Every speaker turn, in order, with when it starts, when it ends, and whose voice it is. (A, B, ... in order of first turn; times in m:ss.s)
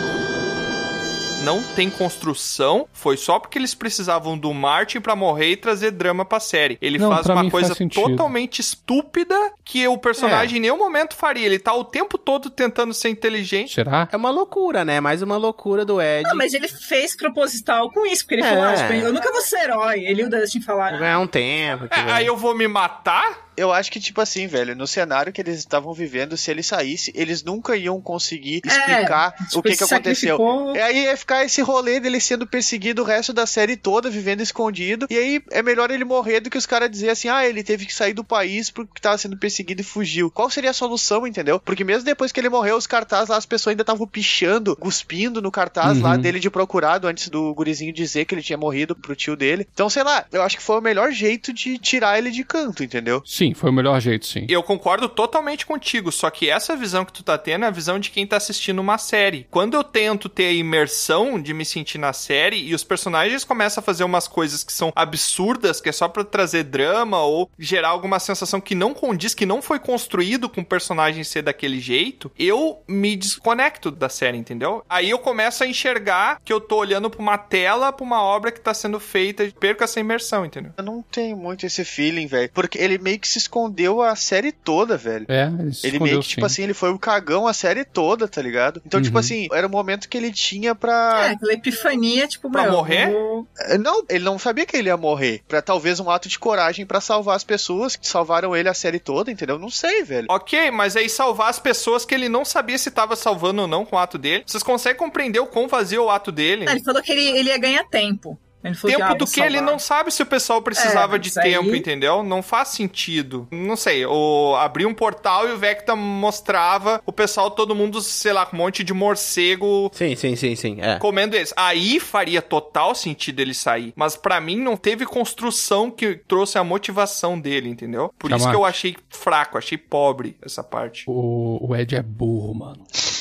0:01.4-0:13.7 A
0:07.0-0:08.3 B
0:10.2-0:10.5 C
0:13.7-0:14.1 B
0:14.1-0:16.5 C
0:16.2-0:21.1 D
0:18.4-0:19.2 C
0:20.9-0:22.3 C
0:21.9-0:23.4 A
0:23.6-0:53.2 E
0:28.6-0:30.8 D
0:45.8-0:46.3 B
0:53.3-0:54.5 B
0:54.5-1:20.7 A
1:20.8-1:25.3 E
1:25.3-1:26.6 B
1:25.8-1:31.3 E
1:29.0-1:29.3 B
1:31.1-1:33.5 D
1:32.5-1:33.2 A
1:33.6-1:40.3 E
1:40.3-1:46.8 A
1:46.6-1:49.8 D
1:48.8-1:59.9 A
1:50.8-1:51.8 D
1:59.9-2:01.0 C
2:01.0-2:11.1 A
2:08.2-2:08.7 B
2:11.1-2:12.8 B